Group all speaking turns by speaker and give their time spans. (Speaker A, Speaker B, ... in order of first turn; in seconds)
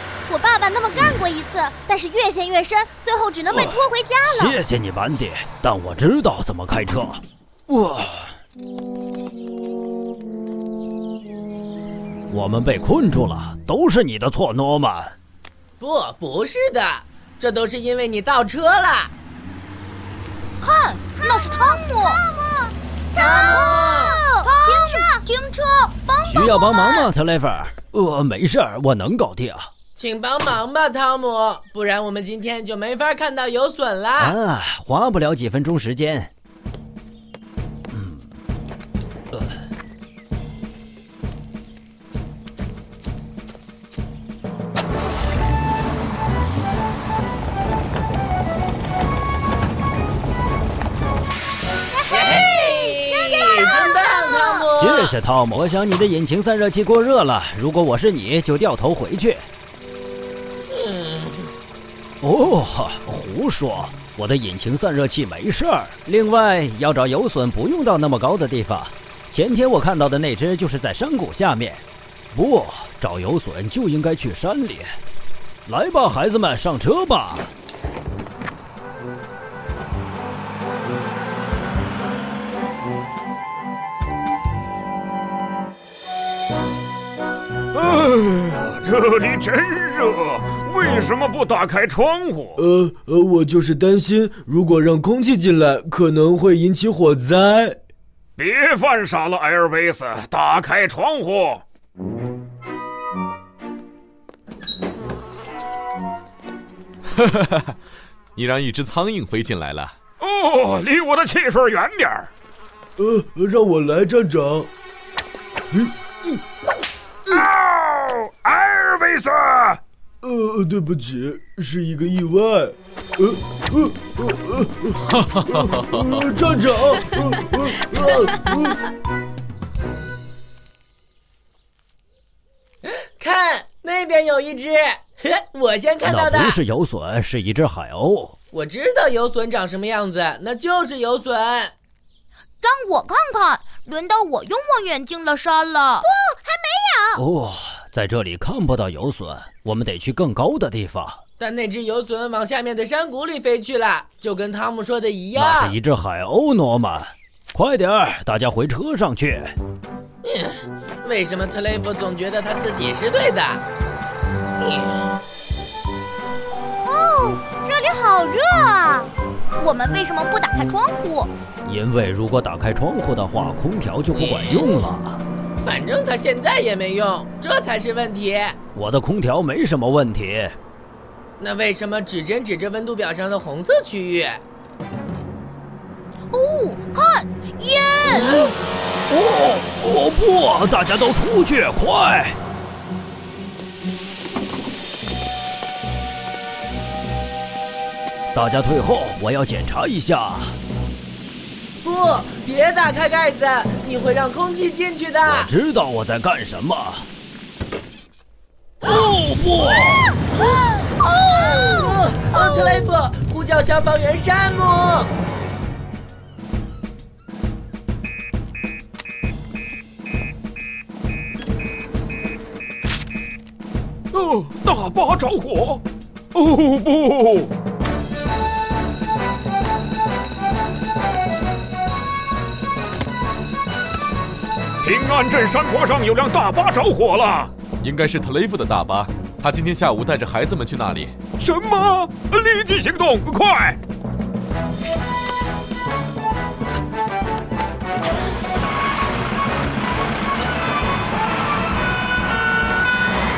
Speaker A: 0.3-4.6, 21.2-25.2, 51.9-54.7, 146.0-147.2, 166.8-169.1
Speaker B: 3.5-8.3, 12.3-15.2, 26.2-29.7, 34.2-36.3, 37.9-38.3, 54.8-59.4, 62.2-74.9, 75.7-77.5, 136.0-138.3, 147.1-151.2, 155.3-159.6, 171.6-175.2, 178.7-180.6, 189.1-192.4, 198.3-200.6, 205.2-207.1, 208.8-210.1
Speaker C: 15.8-19.1, 23.1-24.2, 29.9-34.4, 52.1-55.1, 60.7-61.5, 132.8-136.6, 138.5-141.7, 151.4-155.7, 160.2-163.6, 164.6-164.9, 174.1-174.7, 175.6-178.6, 181.4-184.4, 188.1-188.5, 201.8-205.5, 210.3-215.1
Speaker D: 20.6-22.2, 24.4-27.1, 142.6-146.1, 169.6-171.3, 186.3-188.5, 212.3-212.9
Speaker E: 87.7-92.6, 98.4-101.6, 110.2-112.3, 117.3-119.8, 224.1-225.8, 226.3-227.5, 234.8-237.5, 241.4-243.8
Speaker F: 92.6-97.8, 113.0-114.7, 115.7-116.4, 120.2-128.8
Speaker G: 107.1-107.7, 108.3-109.9, 237.8-241.2